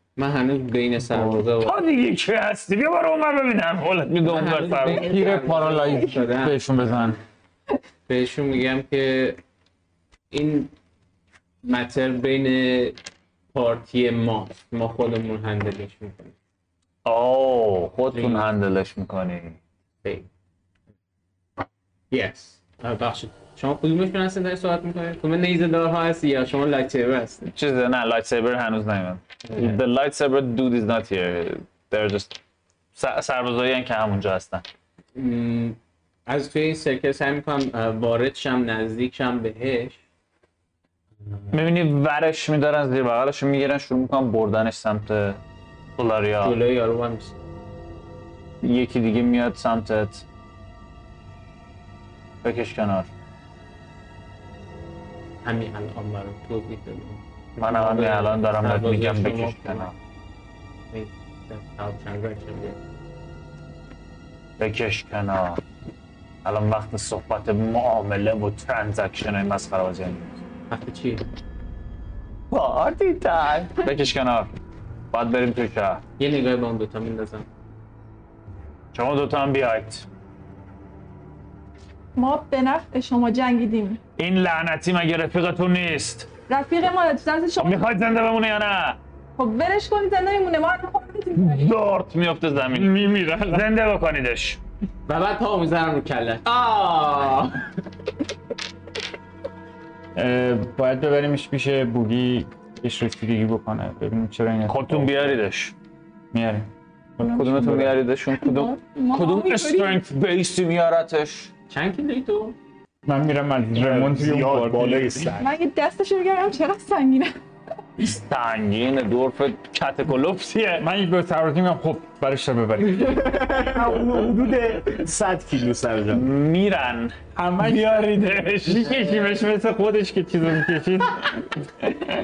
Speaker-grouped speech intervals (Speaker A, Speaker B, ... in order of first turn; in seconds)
Speaker A: 0.1-1.8, 4.2-7.2, 8.1-9.4, 10.3-10.7, 11.6-13.0, 13.5-16.3, 18.1-18.5, 22.1-27.5, 29.5-29.8, 35.1-40.0, 41.3-41.5, 46.4-47.3, 55.4-59.9, 60.9-62.8, 70.7-71.2, 76.2-77.5, 95.1-97.7, 111.7-112.5, 123.2-123.8
Speaker B: 1.1-1.4, 4.9-7.2, 92.7-93.7, 100.1-105.4, 106.3-108.0, 113.0-115.3, 120.8-123.5, 127.3-132.0
Speaker C: 1.6-5.0, 17.1-19.6, 27.4-32.4, 32.9-34.6, 41.5-45.4, 46.0-46.6, 48.6-50.2, 52.4-53.1, 57.6-59.9, 64.6-65.6, 66.4-70.4, 72.5-74.5, 75.1-76.0, 78.9-80.0, 84.2-86.3, 87.6-89.0, 91.3-94.6, 104.7-105.7, 107.2-111.5, 118.0-120.9, 126.1-129.0
Speaker D: 82.2-84.0, 86.5-87.8, 89.4-91.7, 108.3-110.0, 115.4-117.3
Speaker E: 113.7-115.5, 123.6-126.2